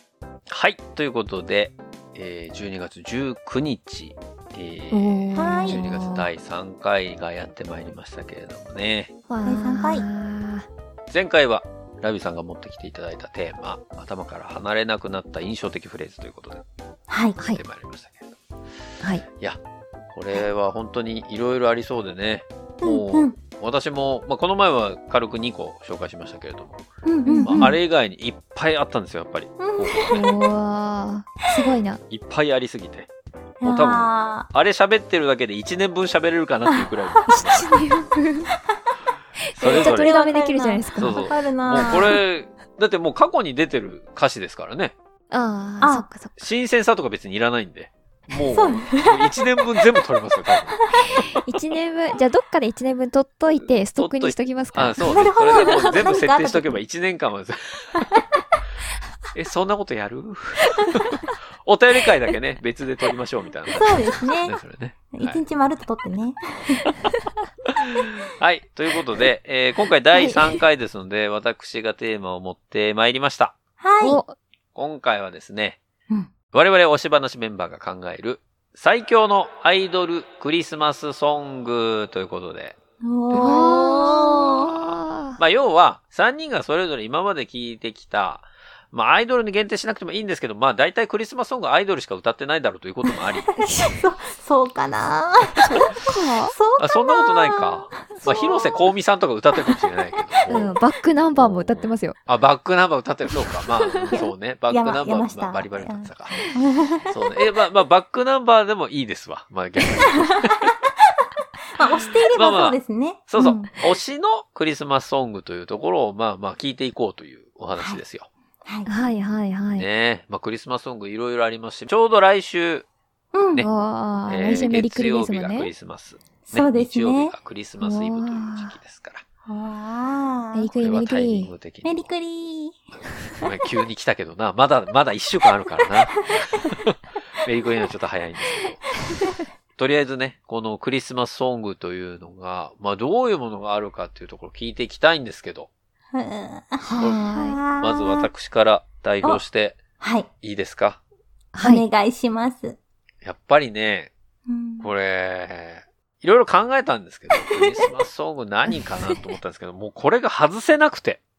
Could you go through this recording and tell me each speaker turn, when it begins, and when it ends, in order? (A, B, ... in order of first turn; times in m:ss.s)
0:00.5-0:09.1 A
0:04.9-0:06.3 B
0:05.3-0:05.9 C
0:09.3-0:10.7 B
0:09.4-0:10.0 C
0:11.1-0:16.6 A
0:17.1-0:17.4 C
0:17.4-0:18.4 A
0:20.1-0:26.8 A
0:22.8-0:23.4 C
0:27.0-0:27.7 C
0:27.3-0:27.8 B
0:27.4-0:30.2 A
0:29.6-0:30.2 C
0:30.1-0:32.0 B
0:32.1-0:33.1 A
0:33.6-0:34.5 C
0:33.6-0:37.7 A
0:37.3-0:38.5 B
0:39.4-0:41.2 B
0:39.6-0:40.2 A
0:39.7-0:42.2 C
0:41.0-0:45.0 A
0:45.3-0:46.4 B
0:45.8-0:46.1 C
0:46.4-0:51.2 A
0:48.5-0:51.2 C
0:51.0-0:56.1 B
0:54.0-0:58.2 A
0:55.0-0:56.8 C
0:59.3-1:05.4 A
1:03.7-1:04.6 C
1:05.1-1:06.9 C
1:08.4-1:13.5 A
1:10.1-1:10.5 B
1:13.8-1:14.2 C
1:14.0-1:14.4 B
1:14.8-1:15.8 A
1:16.5-1:22.8 A
1:23.0-1:24.7 C
1:23.3-1:25.4 B
1:24.6-1:33.5 A
1:33.5-1:38.8 C
1:33.6-1:34.0 B
1:35.6-1:36.5 B
1:36.8-1:40.8 A
1:40.5-1:42.2 B
1:41.3-1:46.4 A
1:43.8-1:44.2 B
1:44.1-1:47.1 C
1:46.3-1:46.5 B
1:47.1-1:50.7 A
1:51.8-1:53.7 C
1:52.3-1:58.3 A
1:57.8-1:58.0 C
1:58.9-1:59.9 B
1:59.7-2:02.9 A
2:03.3-2:03.7 C
2:03.6-2:05.7 B
2:04.3-2:09.2 A
2:06.4-2:07.3 C
2:07.8-2:08.8 B
2:09.5-2:10.7 C
2:10.5-2:11.5 B
2:10.8-2:12.1 A
2:11.8-2:12.8 C
2:13.4-2:18.9 A
2:19.8-2:25.7 A
2:26.1-2:28.3 C
2:26.8-2:27.6 B
2:27.7-2:29.8 A
2:30.0-2:30.3 C
2:30.4-2:31.0 A
2:31.5-2:31.8 B
2:31.6-2:32.8 C
2:33.2-2:34.1 A
2:34.5-2:34.9 C
2:34.8-2:41.2 A
2:37.4-2:38.1 C